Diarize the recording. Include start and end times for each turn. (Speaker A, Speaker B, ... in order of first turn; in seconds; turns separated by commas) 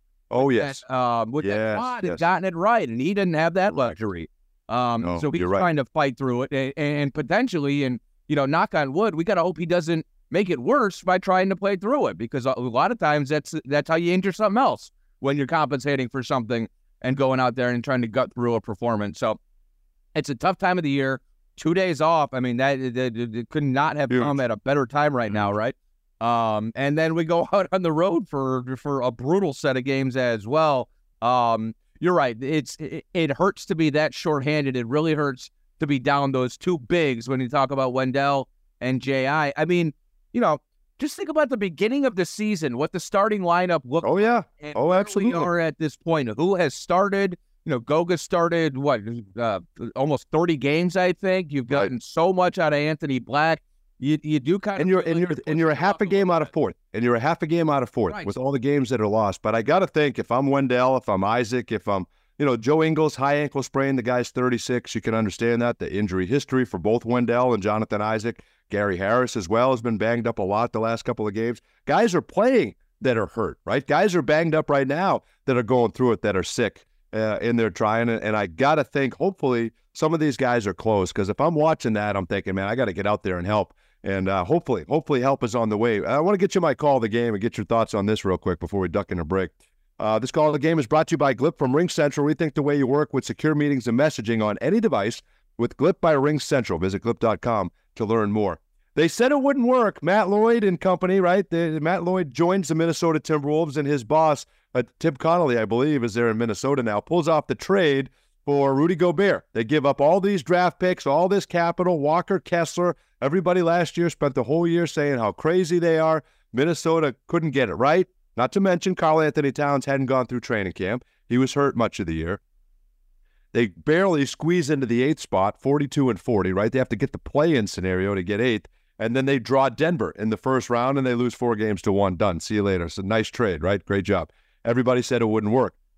Speaker A: 0.3-0.8, Speaker B: 0.3-19.4, Speaker A: 1.4-2.2, Speaker A: 5.0-5.7, Speaker B: 20.1-56.5, Speaker A: 24.1-24.3, Speaker A: 44.0-45.5, Speaker A: 54.8-122.4, Speaker B: 58.1-58.3, Speaker A: 123.5-135.8